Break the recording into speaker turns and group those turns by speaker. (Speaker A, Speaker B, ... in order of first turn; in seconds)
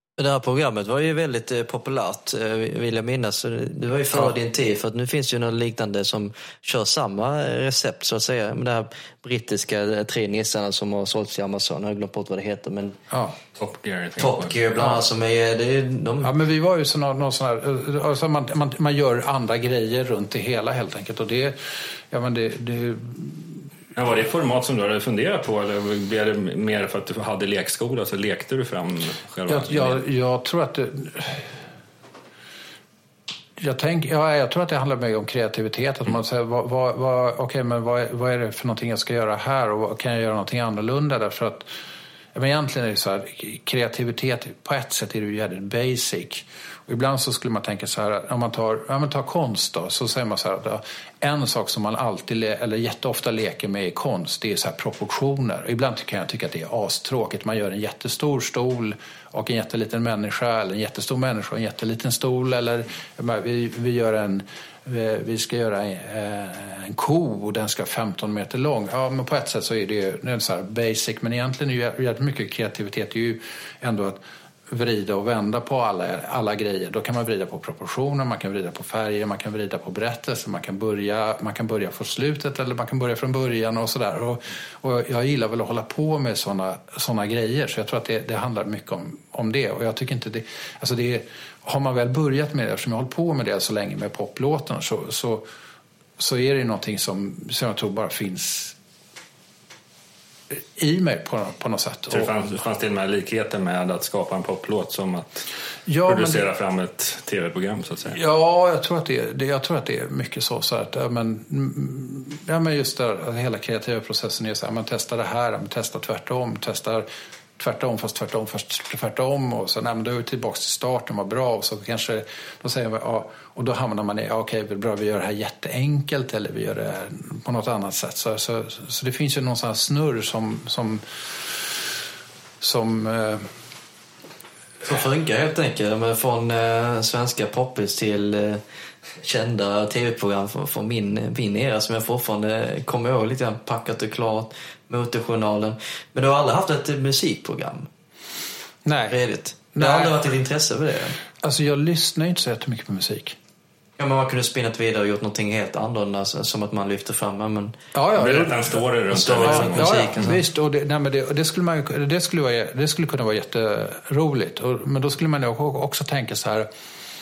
Speaker A: 0.2-13.0, 14.2-16.3, 134.8-138.6, 139.2-147.9, 149.1-151.2, 154.0-157.8, 159.1-160.4
Speaker B: 13.1-13.4, 16.2-23.7, 29.5-31.6, 33.6-41.7, 42.3-95.4, 96.2-98.8, 100.5-102.3, 105.9-106.5, 108.1-117.1, 117.6-131.7, 132.6-133.5, 148.8-149.2, 149.8-150.2, 151.4-153.4, 157.9-158.8, 159.4-166.7
Speaker C: 13.6-14.6, 23.9-30.0, 102.1-105.5, 106.1-108.2, 158.2-160.0